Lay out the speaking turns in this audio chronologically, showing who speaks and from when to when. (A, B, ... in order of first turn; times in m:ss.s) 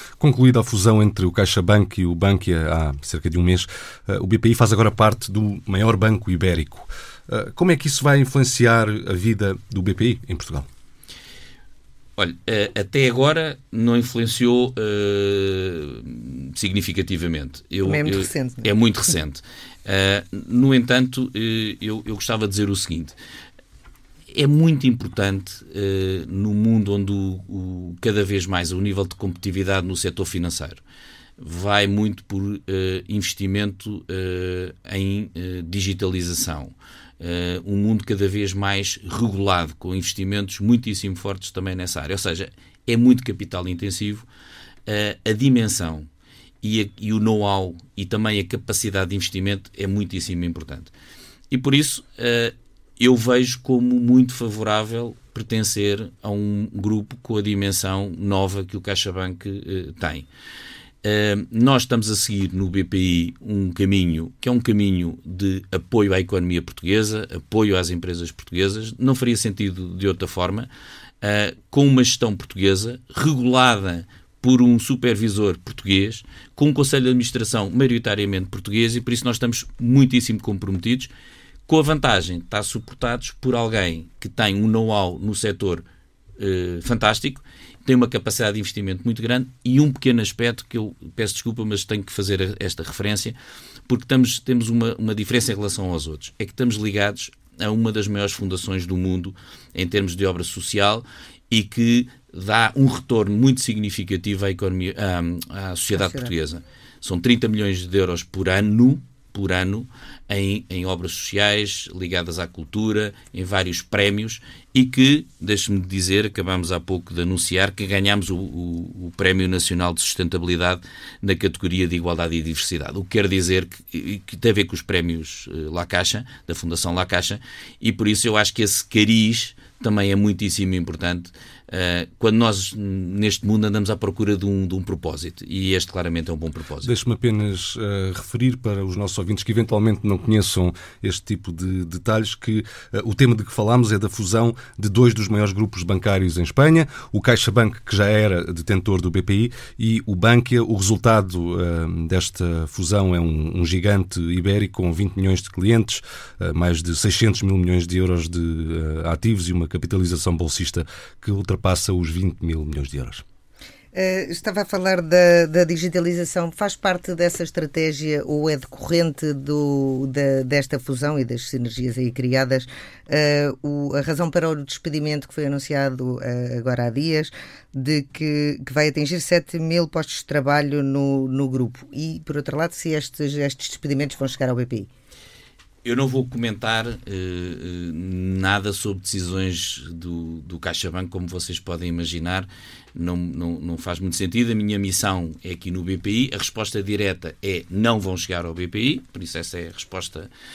0:00.2-0:10.7 A
0:12.2-0:23.2 B
0:17.8-0:18.7 C
0:24.3-0:30.8 B
0:31.4-0:44.3 B
0:44.9-0:46.1 B
0:46.6-0:50.9 B
0:51.5-1:00.3 B
1:01.0-1:10.7 B
1:11.2-1:21.1 B
1:21.7-1:25.9 B
1:26.4-1:33.4 B
1:33.9-2:16.9 B
1:46.0-1:46.3 C
2:16.8-2:43.2 A
2:43.9-3:04.9 C
3:05.8-3:20.3 B